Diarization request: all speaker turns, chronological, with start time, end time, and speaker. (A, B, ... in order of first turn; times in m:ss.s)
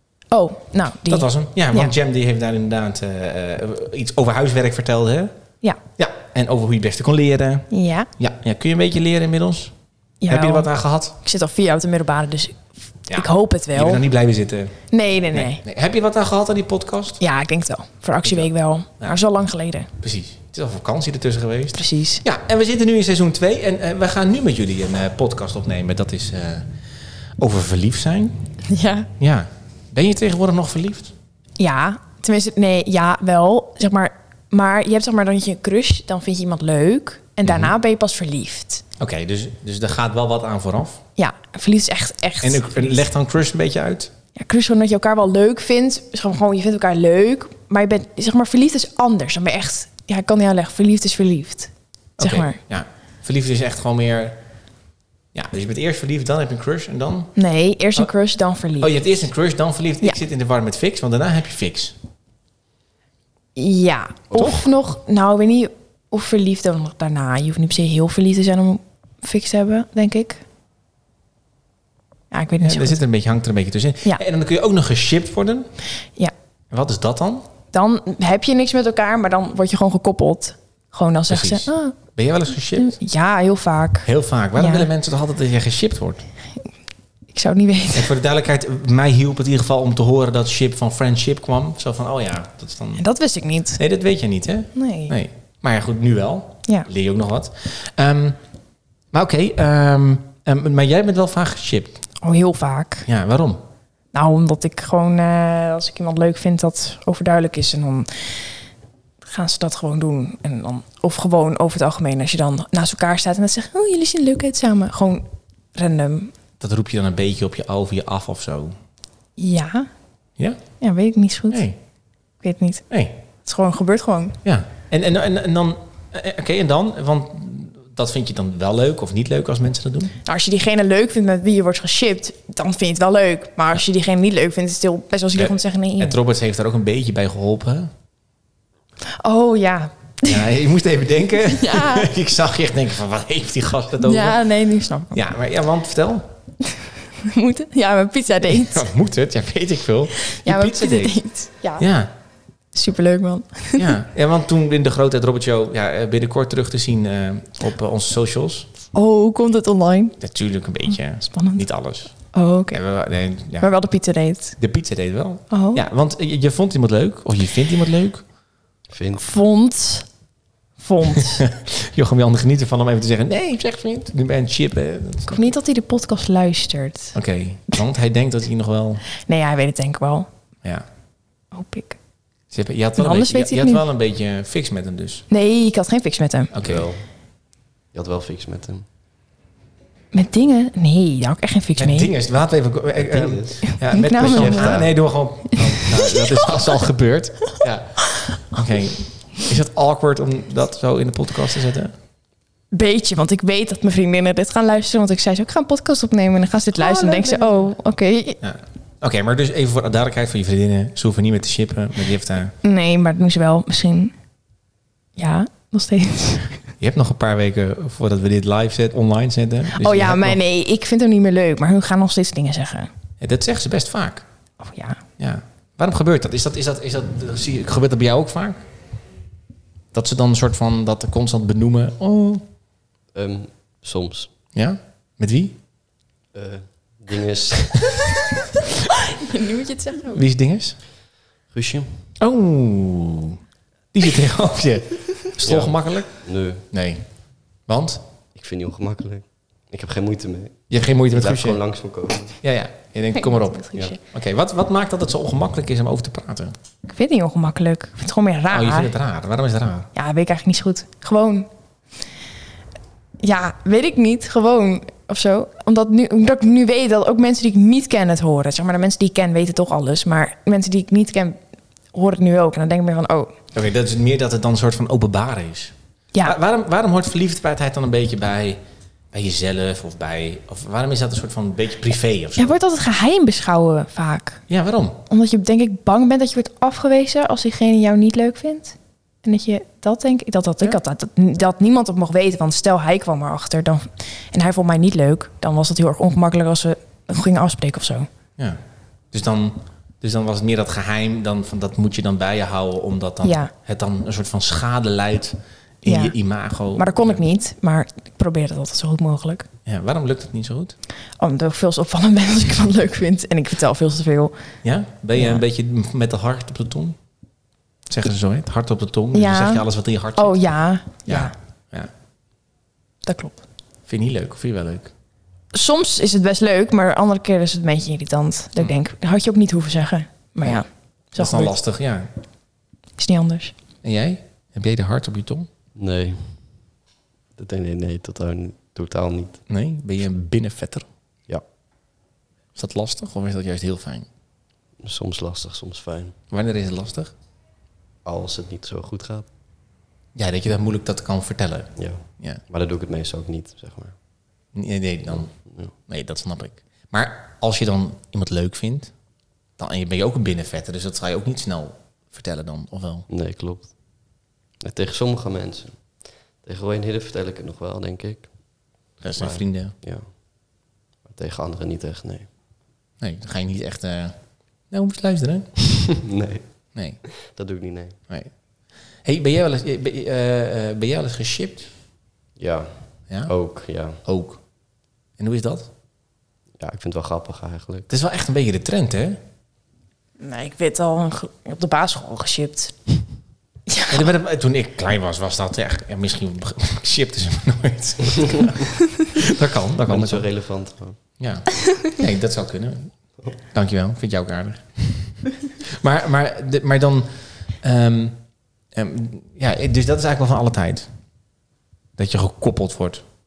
0:00.3-0:01.9 A
0:01.1-0:05.3 B
0:06.0-0:09.7 B
0:07.7-0:08.1 A
0:10.2-0:14.0 A
0:10.3-0:11.1 B
0:13.1-0:14.8 B
0:14.9-0:15.6 A
0:15.3-0:17.2 B
0:17.2-0:19.9 A
0:18.2-0:19.2 B
0:20.0-0:26.7 B
0:21.8-0:22.2 A
0:27.4-0:28.4 B
0:28.7-0:29.1 A
0:29.2-0:31.1 B
0:31.6-0:38.8 A
0:37.4-0:37.7 B
0:39.0-0:41.0 B
0:41.2-0:43.0 A
0:42.4-0:44.1 B
0:44.4-0:52.6 A
0:52.2-0:54.4 B
0:55.3-0:57.3 B
0:57.4-0:59.2 A
0:58.8-1:02.0 B
1:03.6-1:10.4 A
1:04.3-1:04.6 B
1:12.3-1:13.0 A
1:12.6-1:15.7 B
1:16.7-1:17.5 B
1:17.7-1:22.0 A
1:21.3-1:23.0 B
1:22.8-1:24.9 A
1:24.0-1:26.2 B
1:27.3-1:28.1 A
1:27.9-1:33.0 B
1:33.0-1:33.8 A
1:33.8-1:38.4 B
1:34.7-1:35.1 A
1:39.1-1:42.0 B
1:42.2-1:43.1 A
1:43.1-1:43.6 B
1:44.1-1:48.4 A
1:49.2-1:56.3 A
1:56.6-1:58.7 B
1:59.4-1:59.9 A
2:00.8-2:01.6 A
2:01.5-2:01.8 B
2:02.4-2:02.8 A
2:02.9-2:03.1 B
2:03.4-2:04.4 A
2:04.4-2:10.1 B
2:10.2-2:16.2 A
2:15.4-2:17.9 B
2:19.2-2:20.4 A
2:20.2-2:24.4 B
2:21.5-2:22.1 A
2:24.0-2:25.2 A
2:25.1-2:26.3 B
2:27.2-2:28.9 A
2:28.5-2:31.2 B
2:30.2-2:31.8 A
2:31.8-2:32.1 B
2:32.7-2:33.9 A
2:33.8-2:38.7 B
2:38.9-2:40.2 A
2:40.2-2:42.1 B
2:41.3-2:41.6 A
2:42.3-2:42.8 A
2:42.7-2:43.7 B
2:43.6-2:44.6 A
2:44.6-2:48.2 B
2:45.5-2:45.8 A
2:48.9-2:49.2 C
2:49.2-2:50.1 A
2:50.8-2:51.4 A
2:51.4-2:55.5 B
2:55.3-2:57.2 A
2:57.1-2:59.0 B
2:59.2-3:00.3 A
3:01.5-3:02.0 A
3:02.5-3:05.2 B
3:03.0-3:03.8 A
3:05.3-3:06.5 A
3:06.5-3:06.9 B
3:06.6-3:07.1 C
3:07.9-3:08.9 C
3:10.1-3:12.1 A
3:11.8-3:21.9 B
3:12.9-3:15.0 C
3:13.7-3:14.8 A
3:15.5-3:16.6 A
3:22.7-3:28.4 A
3:26.7-3:27.8 B
3:28.4-3:32.5 B
3:32.6-3:34.1 A
3:35.2-3:36.6 A
3:36.8-3:40.4 B
3:39.7-3:42.9 A
3:43.2-3:44.2 B
3:44.6-3:45.0 A
3:45.2-3:48.6 B
3:49.9-3:52.4 B
3:53.1-3:54.3 C
3:54.5-3:55.6 B
3:56.3-3:58.0 C
3:59.2-4:00.2 A
4:00.1-4:00.8 B
4:01.5-4:02.1 C
4:02.2-4:03.4 B
4:03.9-4:08.0 B
4:05.4-4:06.6 C
4:08.3-4:12.4 C
4:10.7-4:11.6 B
4:12.4-4:16.6 B
4:13.1-4:14.0 A
4:16.9-4:18.9 A
4:18.5-4:19.9 B
4:19.9-4:21.5 A
4:23.2-4:31.4 A
4:31.9-4:33.3 A
4:33.5-4:35.7 B
4:36.2-4:38.6 B
4:39.1-4:42.6 B
4:42.4-4:44.4 A
4:44.5-4:45.0 B
4:45.1-4:58.1 A
4:59.1-5:07.2 B
5:03.2-5:03.5 A
5:05.8-5:06.1 A
5:06.7-5:09.5 A
5:09.6-5:10.8 B
5:11.2-5:14.3 A
5:14.6-5:17.0 B
5:15.1-5:15.4 A
5:17.9-5:21.9 B
5:19.1-5:21.3 A
5:23.0-5:23.4 A
5:23.9-5:24.9 B
5:25.5-5:31.6 A
5:31.1-5:32.1 B
5:33.0-5:33.6 A
5:33.8-5:35.5 B
5:35.8-5:36.7 C
5:37.4-5:39.4 C
5:39.5-5:40.9 B
5:42.6-5:44.1 B
5:44.8-5:46.2 C
5:46.3-5:47.1 B
5:48.0-5:49.3 C
5:50.1-5:52.4 B
5:51.8-5:54.0 C
5:54.5-5:58.9 B
5:55.1-5:55.7 C
5:59.6-6:03.1 B
6:03.1-6:12.3 C
6:09.0-6:09.7 B
6:13.0-6:15.5 B
6:15.9-6:18.0 C
6:16.8-6:17.0 B
6:19.0-6:21.7 B
6:22.4-6:24.0 C
6:24.0-6:24.4 B
6:25.2-6:25.7 B
6:26.6-6:27.9 C
6:27.9-6:29.2 B
6:30.2-6:32.9 A
6:33.7-6:34.1 A
6:33.9-6:40.3 B
6:39.9-6:41.0 C
6:41.2-6:47.1 B
6:47.6-6:48.2 B
6:48.7-6:50.9 B
6:52.0-6:53.0 B